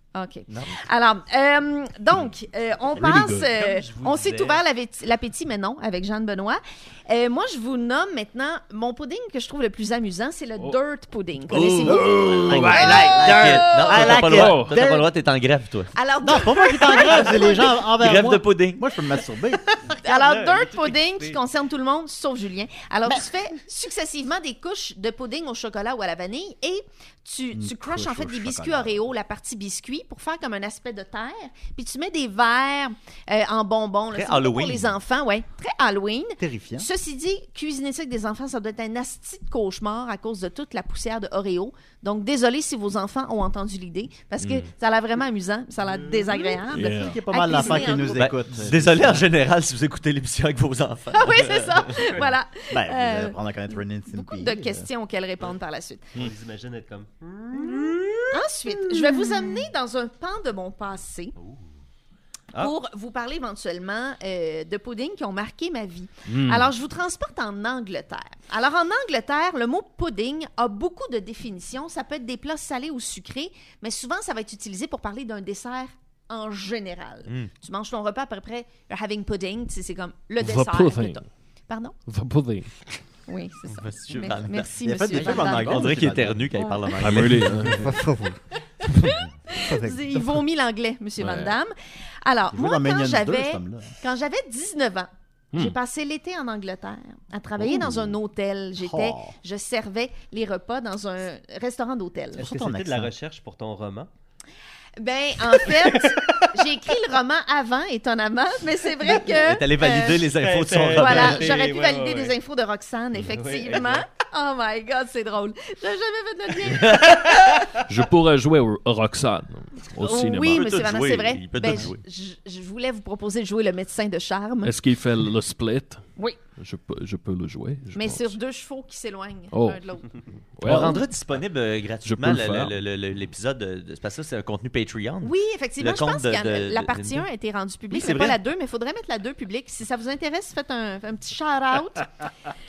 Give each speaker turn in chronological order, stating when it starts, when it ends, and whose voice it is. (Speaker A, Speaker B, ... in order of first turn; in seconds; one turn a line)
Speaker A: 0.1-14.1
Speaker B: 0.5-0.7
Speaker C: 3.0-3.5
Speaker D: 3.5-4.6
Speaker C: 11.5-13.3
Speaker B: 11.5-15.9
Speaker E: 11.8-15.1
Speaker C: 14.0-14.7
Speaker A: 15.9-17.8
Speaker E: 16.2-19.6
Speaker B: 18.0-18.8
Speaker A: 19.9-48.3
Speaker D: 20.0-21.4
Speaker E: 27.5-29.0
Speaker B: 34.1-35.0
Speaker E: 36.4-36.9
Speaker C: 44.4-44.7
Speaker E: 45.9-49.2
Speaker C: 46.7-47.2
Speaker B: 48.1-51.8
Speaker A: 51.1-56.2
Speaker E: 52.7-54.9
Speaker D: 56.1-58.2
Speaker A: 58.3-61.3
Speaker A: 62.5-82.0
Speaker C: 66.3-66.7
Speaker C: 80.4-81.2
Speaker C: 82.1-82.7
Speaker A: 83.3-85.9
Speaker B: 83.7-87.8
Speaker E: 84.8-86.5
Speaker A: 86.5-87.2
Speaker C: 87.0-87.9
Speaker E: 87.2-90.4
Speaker A: 88.8-102.4
Speaker C: 91.2-91.5
Speaker E: 92.5-93.9
Speaker E: 97.6-98.1
Speaker E: 98.8-99.3
Speaker D: 102.3-104.1
Speaker E: 102.4-103.1
Speaker A: 105.0-110.3
Speaker D: 105.6-106.5
Speaker B: 109.2-111.5
Speaker D: 110.3-112.3
Speaker A: 110.9-117.6
Speaker D: 113.2-114.0
Speaker B: 116.7-117.7
Speaker C: 117.8-120.7
Speaker A: 120.0-124.7
Speaker B: 120.5-122.0
Speaker C: 124.6-126.0
Speaker C: 126.5-128.3
Speaker A: 127.9-131.0
Speaker C: 129.5-129.8
Speaker C: 130.6-131.0
Speaker B: 130.6-137.2
Speaker C: 132.0-132.7
Speaker A: 135.2-142.1
Speaker B: 137.9-138.4